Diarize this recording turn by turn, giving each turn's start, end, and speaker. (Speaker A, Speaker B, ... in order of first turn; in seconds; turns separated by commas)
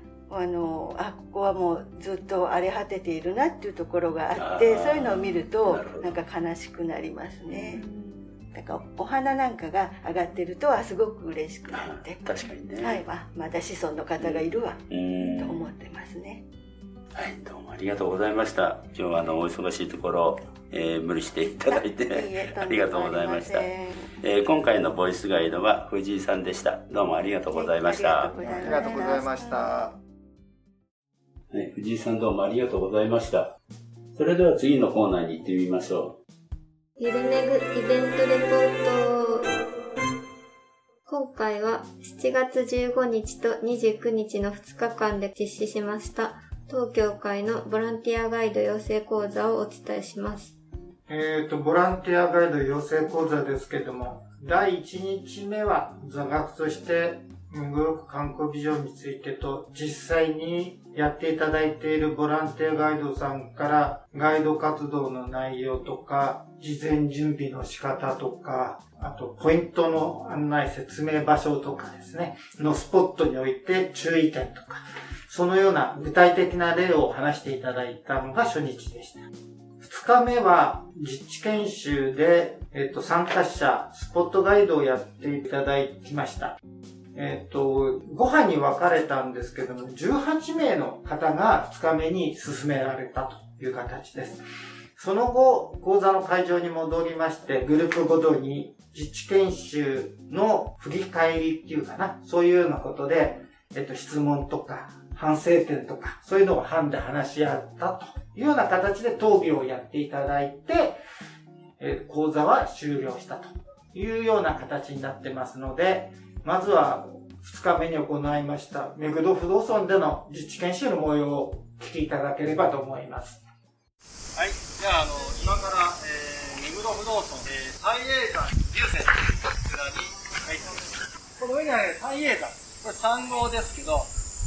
Speaker A: 0.3-7.8, Speaker B: 4.4-6.2, Speaker C: 7.8-8.2, Speaker A: 8.5-12.2, Speaker B: 11.7-13.0, Speaker A: 12.8-14.8, Speaker B: 14.2-15.6, Speaker A: 15.3-16.4, Speaker B: 17.1-23.7, Speaker A: 21.7-24.1, Speaker B: 24.2-28.3, Speaker A: 27.5-29.7, Speaker D: 28.4-30.0, Speaker B: 31.5-33.5, Speaker B: 34.1-36.2, Speaker C: 37.0-39.5, Speaker C: 41.1-50.6, Speaker D: 51.1-79.2, Speaker D: 79.8-86.6, Speaker D: 87.2-94.4, Speaker D: 95.0-111.0, Speaker D: 111.8-123.4, Speaker E: 124.4-130.8, Speaker E: 131.4-134.1